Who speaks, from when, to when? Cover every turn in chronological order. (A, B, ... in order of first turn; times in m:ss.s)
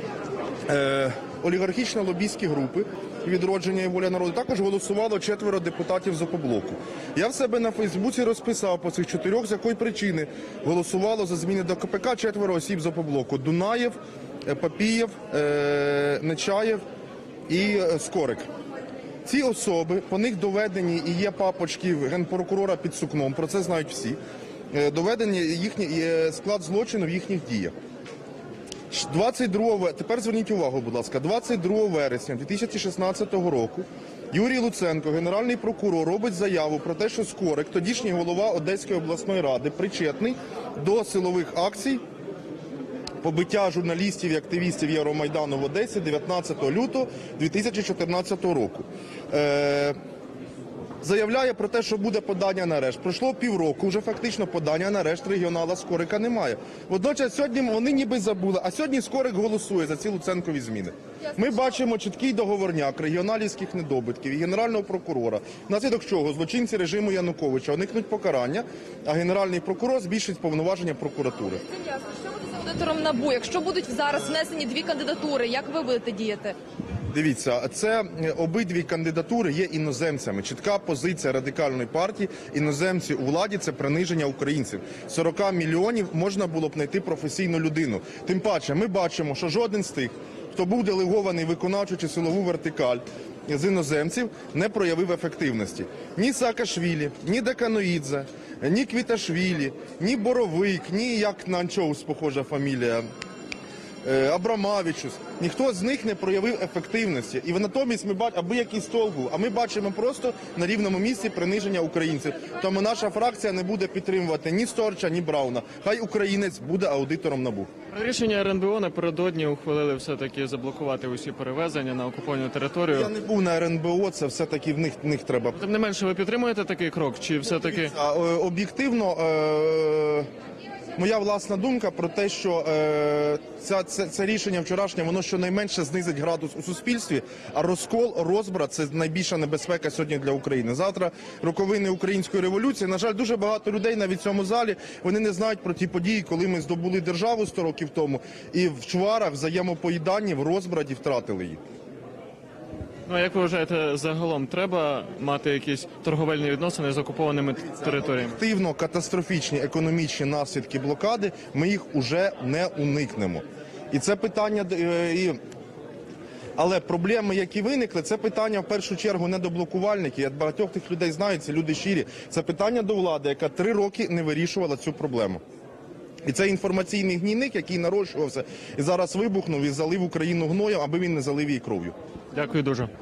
0:00.7-0:16.8 A
0:17.5-0:18.5 A
0:19.2-0:24.2 A
0:24.7-0:27.7 A
0:28.9-0:42.0 A
0:43.2-0:49.9 A
0:51.0-1:11.6 A
1:12.0-1:16.5 B
1:17.1-1:43.1 A
1:44.0-1:57.7 A
1:57.9-2:03.1 C
2:02.9-2:05.6 A
2:05.5-2:07.9 C
2:07.4-2:10.3 A
2:11.0-2:31.6 A
2:33.1-2:38.4 C
2:37.8-2:45.4 A
2:46.6-2:55.4 A
2:56.2-3:01.9 A
3:02.3-3:02.9 C